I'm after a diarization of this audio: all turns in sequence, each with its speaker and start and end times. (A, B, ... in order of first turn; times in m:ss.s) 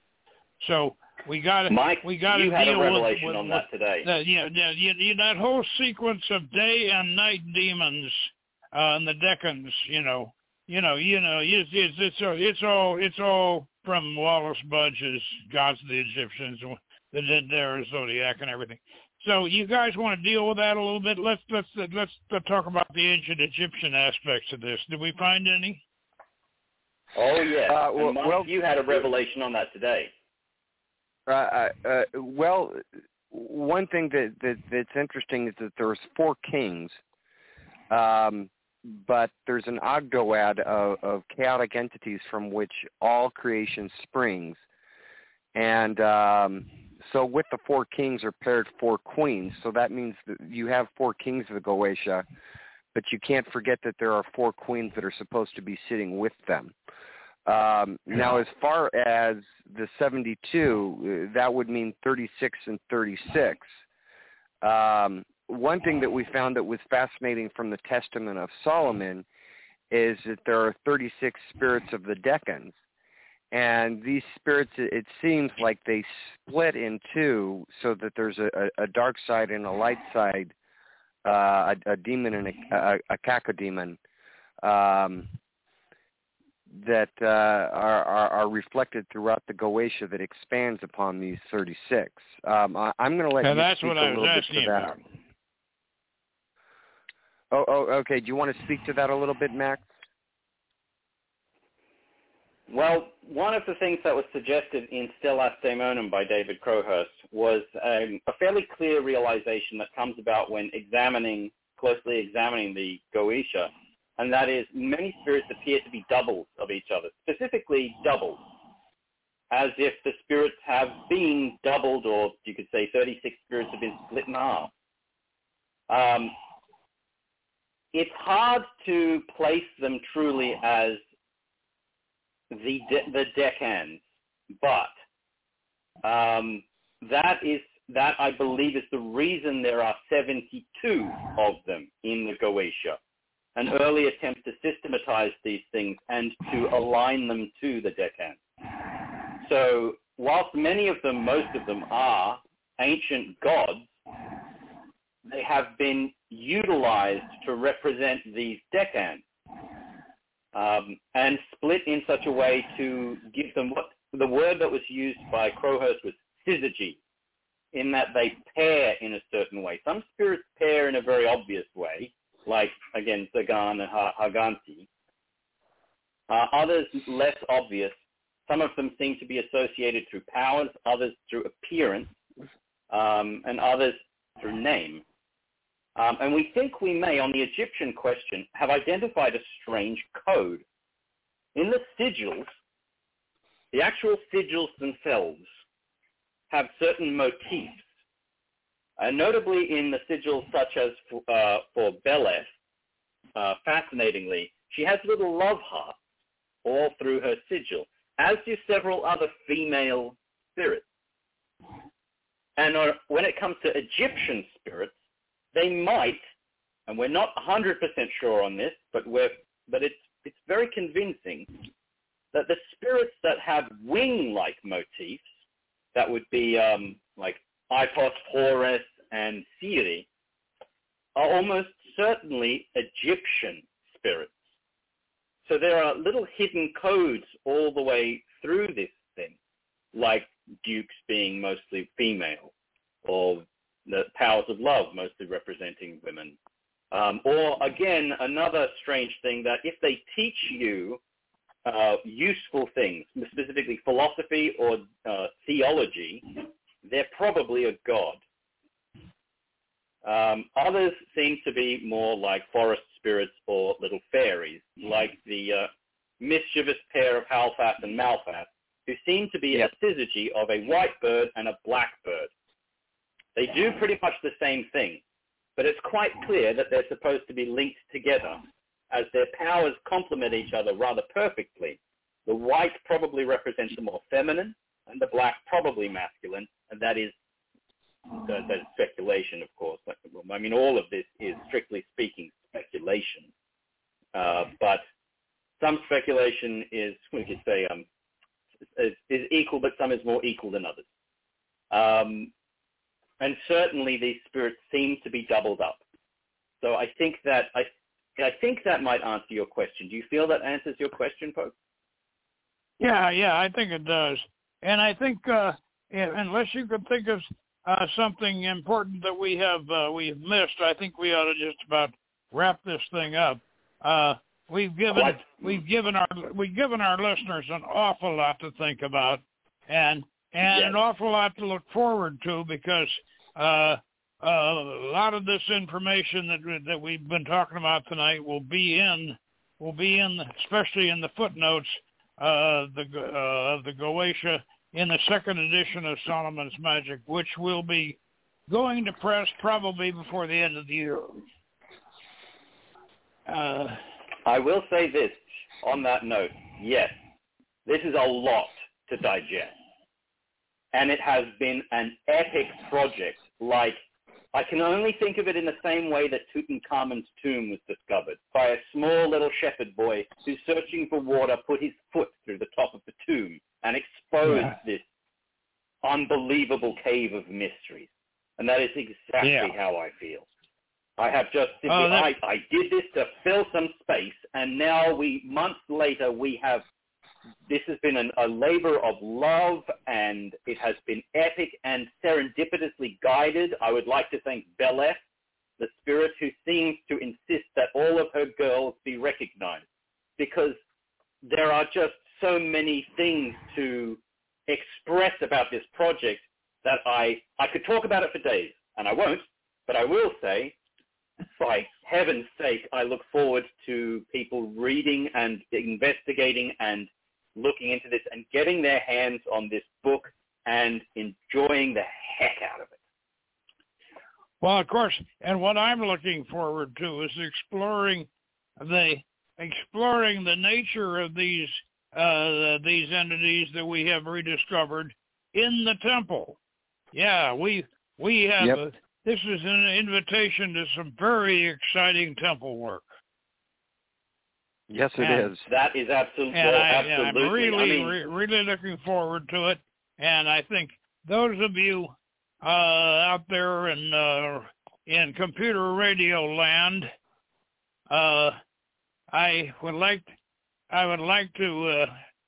0:00.6-0:25.8 A
0:01.7-0:04.1 B
0:27.1-0:30.1 B
0:27.7-0:28.5 C
0:31.3-0:37.0 C
0:37.9-0:44.6 C
0:45.5-0:52.2 C
0:52.9-0:56.7 C
0:57.4-1:03.7 C
1:04.6-1:09.2 C
1:09.9-1:12.7 C
1:13.5-1:20.5 C
1:21.2-1:24.0 C
1:24.6-1:25.3 C
1:26.7-1:34.9 C
1:33.4-1:35.0 A
1:37.5-1:39.8 C
1:42.7-1:58.4 B
1:59.5-2:04.7 B
2:05.9-2:06.4 B
2:07.9-2:11.0 B
2:12.5-2:14.0 B
2:14.6-2:14.9 B
2:16.0-2:23.0 B
2:23.6-2:33.9 B
2:35.2-2:39.2 B
2:40.5-2:47.0 B
2:47.7-2:54.9 B
2:56.3-2:57.9 B
2:58.5-3:02.1 B
3:02.9-3:05.0 B
3:06.0-3:10.6 B
3:11.5-3:12.4 B
3:13.7-3:15.4 B
3:16.5-3:17.8 B
3:19.0-3:22.5 B
3:23.4-3:26.0 B
3:26.6-3:30.8 B
3:32.6-3:34.9 B
3:35.5-3:36.2 B
3:36.9-3:41.5 B
3:42.3-3:45.2 B
3:45.9-3:50.0 B
3:51.1-3:54.3 B
3:55.4-3:59.3 B
3:59.9-4:02.5 B
4:03.0-4:06.3 B
4:06.9-4:11.0 B
4:11.6-4:18.2 B
4:20.0-4:25.7 B
4:26.2-4:32.3 B
4:33.4-4:35.0 B
4:35.6-4:47.1 B
4:48.1-4:53.3 B
4:54.1-4:54.8 B
4:55.6-4:57.8 B
4:58.8-5:00.8 B
5:01.7-5:02.3 B
5:03.2-5:05.8 B
5:06.6-5:11.5 B
5:12.8-5:51.2 A
5:24.9-5:25.6 B
5:30.4-5:30.8 B
5:53.3-5:53.8 A
5:54.2-5:56.9 B
5:57.6-5:59.5 B
6:00.7-6:03.8 B
6:04.3-6:14.8 B
6:14.2-6:14.5 A
6:15.8-6:20.2 B
6:19.2-6:19.5 A
6:21.0-6:26.6 B
6:21.7-6:22.1 A
6:27.5-6:35.0 B
6:35.6-6:39.6 B
6:40.2-6:40.6 B
6:41.2-6:50.5 B
6:51.2-7:02.7 B
7:04.4-7:08.1 A
7:08.6-7:16.4 A
7:16.9-7:22.9 A
7:24.7-7:25.4 C
7:25.0-7:25.3 A
7:25.4-7:28.0 B
7:26.3-7:36.9 A
7:37.9-7:38.4 A
7:39.1-7:40.1 A
7:40.7-7:41.9 A